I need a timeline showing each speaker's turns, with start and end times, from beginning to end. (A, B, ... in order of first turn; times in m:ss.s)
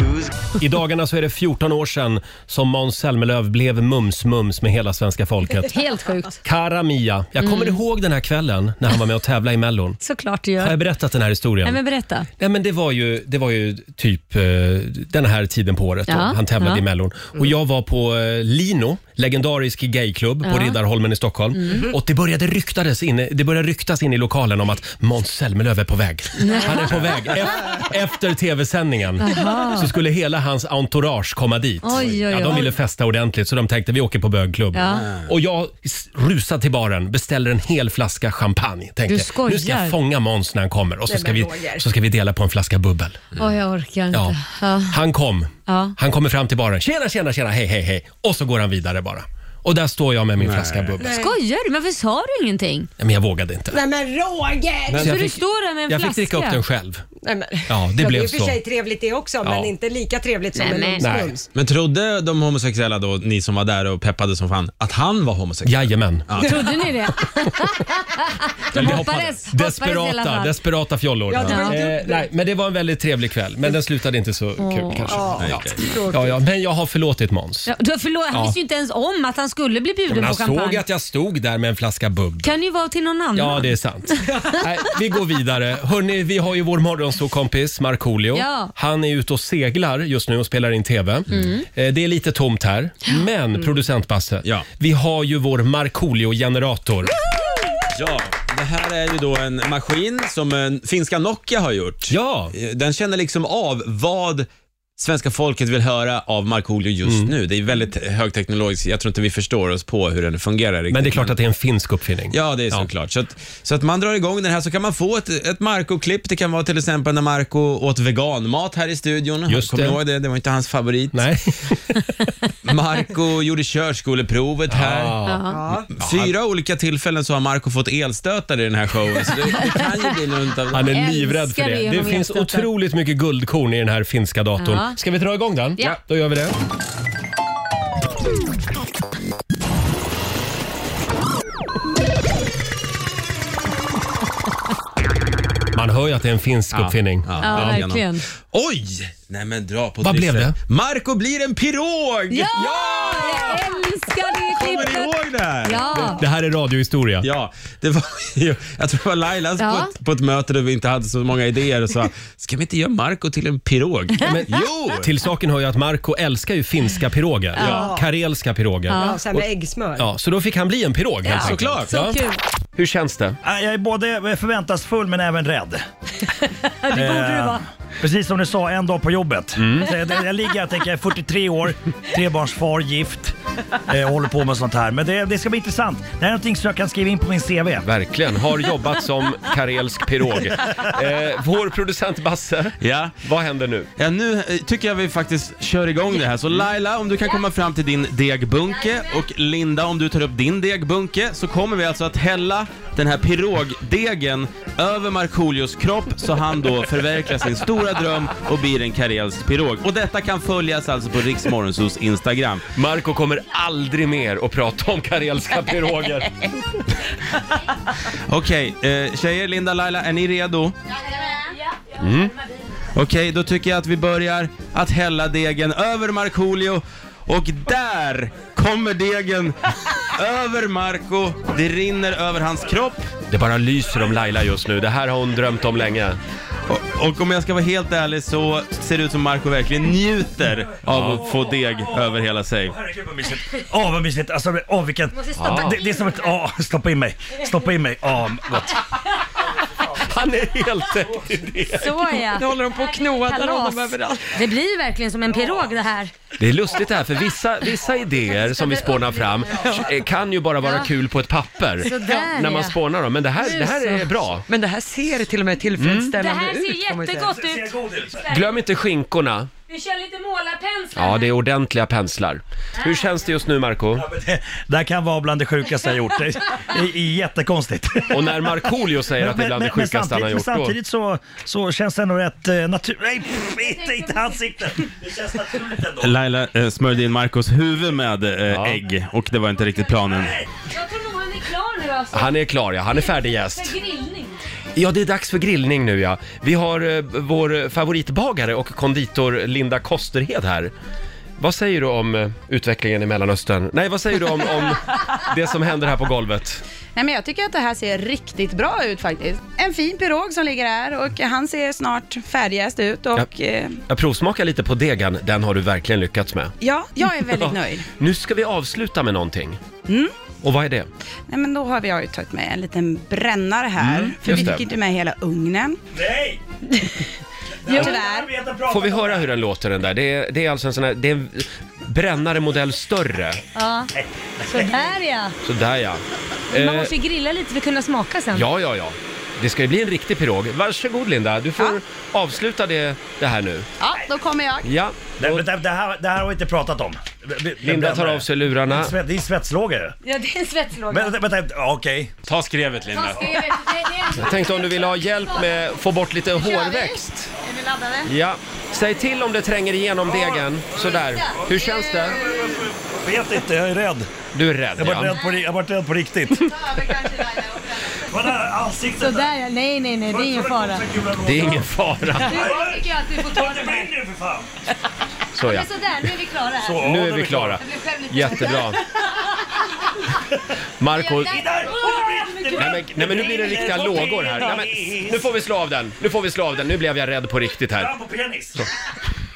0:00.6-0:05.8 A
0:05.6-0:06.4 B
0:06.4-0:10.0 A
0:07.4-0:07.8 B
0:10.0-0:10.8 B
0:10.6-0:11.8 A
0:11.6-0:12.3 B
0:12.4-0:43.2 A
0:16.1-0:16.8 B
0:20.4-0:20.8 B
0:26.4-0:27.0 B
0:29.2-0:29.9 B
0:31.8-0:32.7 B
0:34.7-0:35.1 B
0:35.0-0:35.2 C
0:39.1-0:40.0 B
0:41.1-0:41.9 D
0:43.4-0:45.0 B
0:44.9-0:51.1 A
0:45.7-0:46.0 B
0:50.4-0:51.0 C
0:51.0-0:51.4 D
0:51.1-0:52.9 B
0:53.0-0:53.8 A
0:53.7-0:55.1 D
0:55.0-0:57.0 A
0:55.0-0:56.6 B
0:57.2-1:01.5 D
0:57.7-0:58.6 A
0:59.4-0:59.7 A
1:00.6-1:01.0 B
1:01.0-1:01.3 A
1:01.5-1:06.7 C
1:05.6-1:06.4 A
1:06.4-1:10.6 B
1:08.7-1:17.7 A
1:08.8-1:09.2 C
1:11.3-1:12.3 D
1:11.5-1:11.8 B
1:14.6-1:15.2 B
1:15.1-1:16.4 D
1:15.4-1:15.8 C
1:17.7-1:20.8 B
1:20.1-1:22.5 A
1:22.4-1:24.3 B
1:23.4-1:37.2 A
1:28.3-1:28.7 B
1:31.3-1:31.6 B
1:37.9-1:44.5 C
1:42.1-1:42.5 A
1:45.0-1:51.3 C
1:47.0-1:47.3 A
1:50.9-1:52.9 A
1:52.3-2:01.3 C
1:59.5-2:00.0 A
2:01.1-2:02.3 A
2:02.6-2:05.2 C
2:04.7-2:05.5 A
2:05.3-2:05.6 B
2:05.5-2:05.9 D
2:05.9-2:10.9 C
2:06.0-2:06.4 A
2:10.7-2:16.6 A
2:10.9-2:12.7 B
2:14.6-2:15.0 B
2:25.8-2:27.8 A
2:26.7-2:33.7 C
2:27.4-2:28.2 B
2:30.0-2:30.6 A
2:32.3-2:36.2 B
2:34.5-2:36.1 C
2:35.9-2:37.3 A
2:37.2-2:45.1 C
2:39.6-2:39.9 B
2:44.3-2:49.5 A
2:47.6-2:47.9 B
2:47.6-2:47.9 C
2:47.6-2:48.1 D
2:48.9-2:49.2 B
2:48.9-2:50.1 D
2:50.0-2:52.2 A
2:51.3-2:52.4 B
2:51.3-2:52.0 C
2:52.8-2:53.4 A
2:53.4-2:55.8 E
2:56.4-2:57.6 B
2:56.9-3:03.4 E
2:59.6-2:59.9 A
3:03.9-3:07.9 E
3:07.8-3:13.9 A
3:12.8-3:13.1 C
3:14.0-3:32.7 C
3:32.7-3:36.3 A
3:38.1-3:40.8 C
3:41.2-3:41.6 B
3:42.0-3:42.3 A
3:42.9-3:53.1 C
3:53.3-3:56.2 A
3:56.7-4:02.8 C
4:00.9-4:01.2 A
4:01.3-4:02.0 E
4:02.8-4:08.8 E
4:05.2-4:06.2 B
4:05.4-4:05.8 A
4:09.9-4:12.0 A
4:11.8-4:16.1 B
4:12.4-4:13.6 F
4:12.8-4:14.3 D
4:16.4-4:24.5 A
4:18.4-4:19.8 B
4:21.8-4:22.8 B
4:24.9-4:27.1 F
4:25.8-4:26.2 A
4:26.1-4:28.6 B
4:27.2-4:28.2 E
4:28.2-4:29.5 A
4:29.7-4:31.3 B
4:31.0-4:34.1 A
4:33.9-4:46.2 E
4:38.1-4:40.8 A
4:43.6-4:44.4 B
4:46.0-4:50.4 C
4:48.5-4:48.8 A
4:50.2-4:50.4 E
4:50.6-4:54.4 B
4:52.1-4:53.7 A
4:54.8-5:00.7 A
5:01.4-5:06.6 A
5:07.0-5:13.8 G
5:13.9-5:16.6 A
5:16.6-5:17.9 G
5:17.4-5:19.6 A
5:19.9-5:20.1 G
5:20.4-5:20.9 A
5:21.3-5:25.8 G
5:23.8-5:24.6 A
5:25.9-5:26.4 E
5:27.6-5:29.3 E
5:27.7-5:28.3 G
5:27.7-5:28.0 B
5:28.7-5:33.4 A
5:33.6-5:33.9 B
5:33.9-5:35.0 E
5:34.5-5:35.4 B
5:35.4-5:36.9 A
5:36.5-5:38.5 B
5:38.3-5:43.7 A
5:43.8-5:44.7 G
5:44.6-5:45.5 A
5:45.2-5:50.0 E
5:47.6-5:48.9 A
5:50.0-5:51.2 B
5:50.9-5:52.1 E
5:52.3-5:53.3 C
5:52.9-5:55.4 B
5:54.2-5:57.3 A
5:56.4-5:58.1 B
5:58.0-6:02.2 A
6:00.1-6:00.5 E
6:00.9-6:02.6 B
6:02.0-6:04.1 E
6:04.3-6:05.2 A
6:04.8-6:09.3 E
6:09.0-6:10.8 B
6:10.1-6:14.5 E
6:11.2-6:12.5 A
6:12.3-6:13.9 B
6:15.3-6:15.7 A
6:15.4-6:16.9 B
6:16.6-6:17.6 E
6:16.8-6:18.8 A
6:17.7-6:18.6 B
6:20.8-6:21.4 A
6:21.0-6:22.8 B
6:21.2-6:25.3 E
6:22.6-6:28.0 A
6:27.7-6:28.7 E